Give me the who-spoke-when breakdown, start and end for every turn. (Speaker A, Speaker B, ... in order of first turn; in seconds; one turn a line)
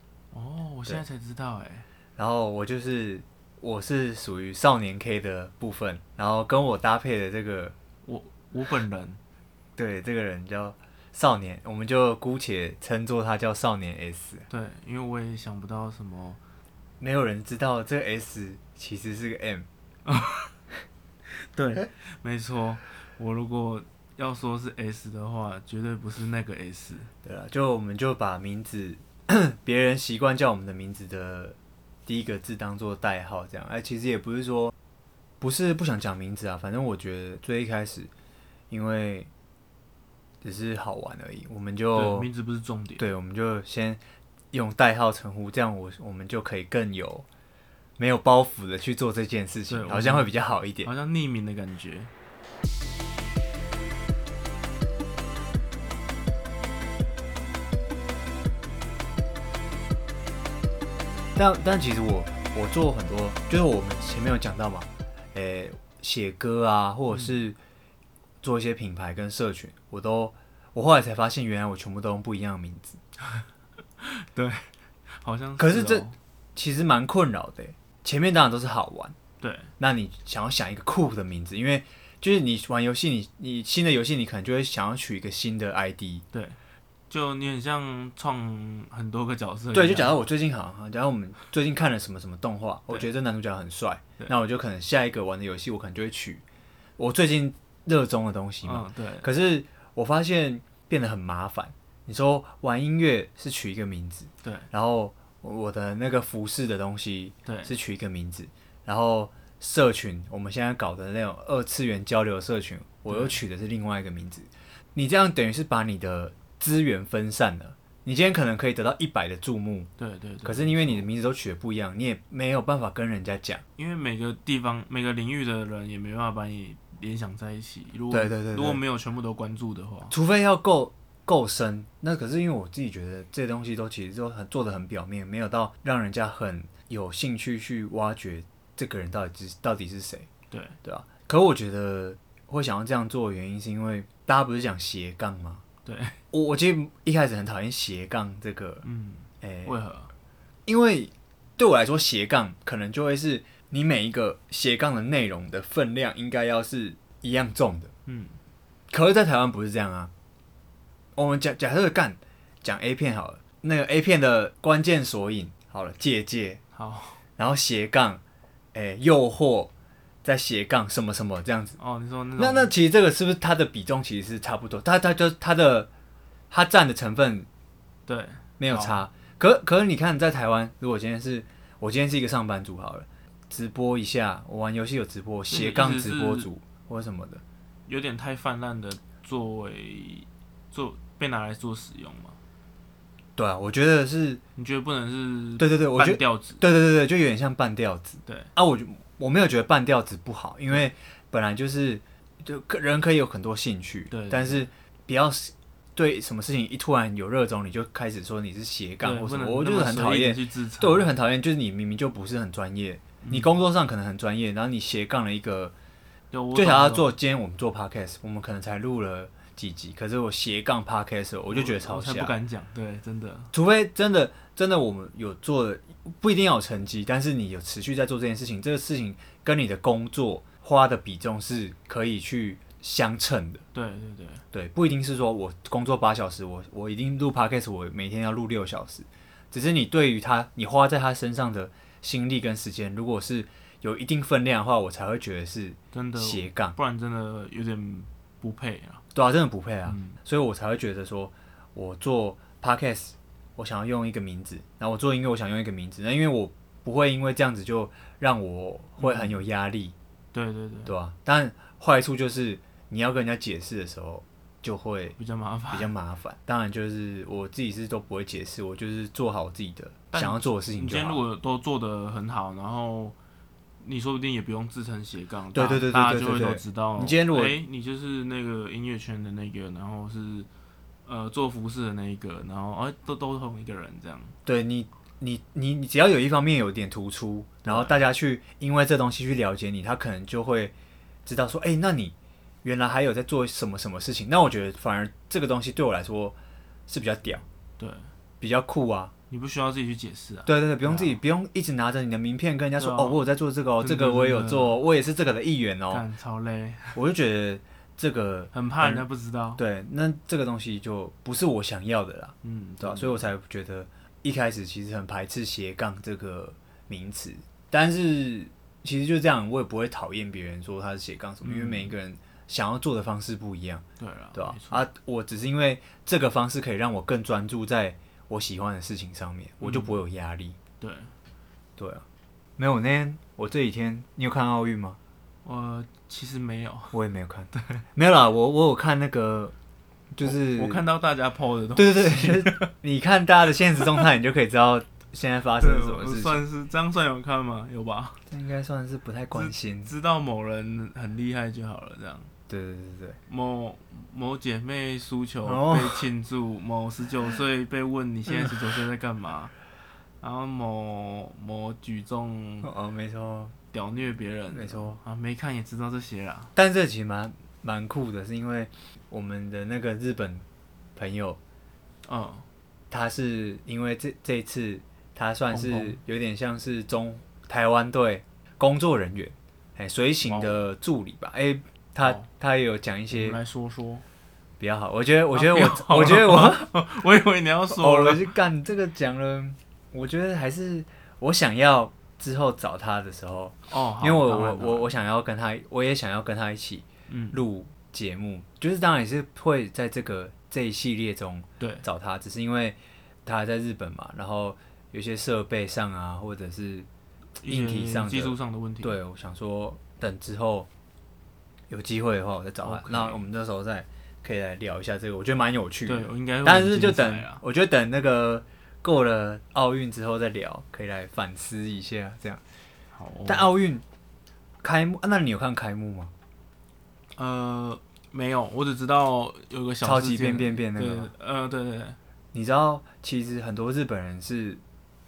Speaker A: 0.3-1.9
Speaker B: 2.2-7.8
Speaker A: 8.0-9.2
Speaker B: 9.8-14.5
Speaker A: 14.5-16.4
Speaker B: 17.0-19.7
Speaker A: 20.1-20.5
Speaker A: 21.3-27.1
Speaker B: 27.2-31.6
Speaker B: 32.1-34.7
Speaker B: 35.4-38.1
Speaker B: 38.7-39.3
Speaker B: 40.4-42.3
Speaker A: 41.9-43.1
Speaker B: 43.0-44.0
Speaker B: 44.5-47.3
Speaker B: 48.0-50.9
Speaker A: 49.7-52.1
Speaker B: 61.4-67.6
Speaker B: 68.4-73.0
Speaker A: 74.0-76.2
Speaker B: 75.6-79.2
Speaker A: 79.4-79.7
Speaker B: 79.8-86.2
Speaker A: 86.3-86.6
Speaker A: 87.1-90.2
Speaker B: 89.7-96.4
Speaker B: 97.0-119.9
Speaker A: 98.6-99.3
Speaker A: 104.4-104.7
Speaker A: 107.5-107.7
Speaker A: 113.1-113.4
Speaker A: 120.0-121.1
Speaker B: 120.4-123.6
Speaker A: 123.8-130.1
Speaker B: 128.1-128.8
Speaker B: 130.1-140.3
Speaker A: 140.5-140.8
Speaker B: 140.8-145.6
Speaker A: 145.8-146.2
Speaker B: 146.3-148.8
Speaker A: 148.8-150.1
Speaker B: 149.4-149.7
Speaker B: 150.7-157.9
Speaker A: 158.1-158.4
Speaker B: 158.9-160.1
Speaker B: 161.2-166.6
Speaker A: 166.7-167.2
Speaker B: 167.4-168.2
Speaker B: 168.7-169.7
Speaker B: 170.2-171.8
Speaker A: 171.8-172.7
Speaker B: 172.4-175.9
Speaker B: 176.5-177.5
Speaker A: 178.1-179.0
Speaker B: 178.6-187.4
Speaker A: 185.5-186.5
Speaker A: 187.9-192.4
Speaker B: 193.4-194.4
Speaker A: 194.6-196.6
Speaker B: 195.6-215.7
Speaker A: 198.2-198.5
Speaker A: 204.1-204.7
Speaker A: 209.0-211.1
Speaker A: 213.2-213.5
Speaker A: 216.3-217.1
Speaker B: 216.5-222.3
Speaker A: 221.5-223.5
Speaker B: 223.5-233.6
Speaker A: 233.7-234.4
Speaker B: 234.5-246.8
Speaker A: 245.9-249.0
Speaker B: 249.1-259.9
Speaker A: 249.9-250.2
Speaker A: 259.0-259.4
Speaker A: 260.3-260.9
Speaker B: 260.9-265.2
Speaker A: 265.2-265.9
Speaker B: 265.7-271.2
Speaker A: 270.1-273.2
Speaker A: 273.8-280.5
Speaker B: 275.5-277.6
Speaker A: 281.1-284.4
Speaker B: 284.4-290.7
Speaker A: 287.6-288.0
Speaker B: 291.3-296.4
Speaker B: 296.9-297.4
Speaker A: 297.8-298.1
Speaker B: 298.4-299.1
Speaker A: 299.3-301.2
Speaker B: 300.5-306.0
Speaker A: 302.8-303.2
Speaker A: 303.8-304.8
Speaker A: 305.9-307.0
Speaker B: 306.9-309.1
Speaker A: 308.5-309.6
Speaker B: 309.6-323.8
Speaker A: 312.4-313.3
Speaker A: 321.4-321.9
Speaker A: 324.0-324.8
Speaker B: 324.4-330.6
Speaker A: 329.6-330.0
Speaker A: 330.8-331.1
Speaker B: 331.8-332.0
Speaker B: 332.6-335.0
Speaker A: 335.4-336.9
Speaker B: 336.9-339.5
Speaker A: 337.5-337.8
Speaker B: 340.1-340.9
Speaker A: 340.2-342.7
Speaker B: 341.8-346.4
Speaker A: 345.6-348.2
Speaker B: 348.3-349.9
Speaker A: 349.3-352.3
Speaker B: 352.5-353.2
Speaker A: 353.3-359.5
Speaker B: 355.4-356.1
Speaker A: 360.2-362.7
Speaker B: 362.6-363.6
Speaker A: 363.7-366.5
Speaker B: 364.5-365.0
Speaker B: 366.6-370.4
Speaker B: 371.0-371.4
Speaker A: 372.0-372.5
Speaker B: 372.9-383.4
Speaker A: 375.5-376.0
Speaker A: 380.2-380.6
Speaker A: 382.0-382.3
Speaker A: 383.1-384.0
Speaker B: 384.6-386.7
Speaker A: 385.3-388.3
Speaker B: 387.7-406.9
Speaker A: 393.7-394.9
Speaker A: 397.1-397.4
Speaker A: 401.6-401.9
Speaker A: 407.4-409.0
Speaker B: 407.4-410.7
Speaker B: 411.7-422.4
Speaker A: 412.6-413.2
Speaker A: 415.9-417.4
Speaker A: 422.9-423.5
Speaker B: 423.3-423.8
Speaker B: 424.6-426.1
Speaker A: 427.1-432.0
Speaker B: 429.8-431.1
Speaker B: 432.3-434.6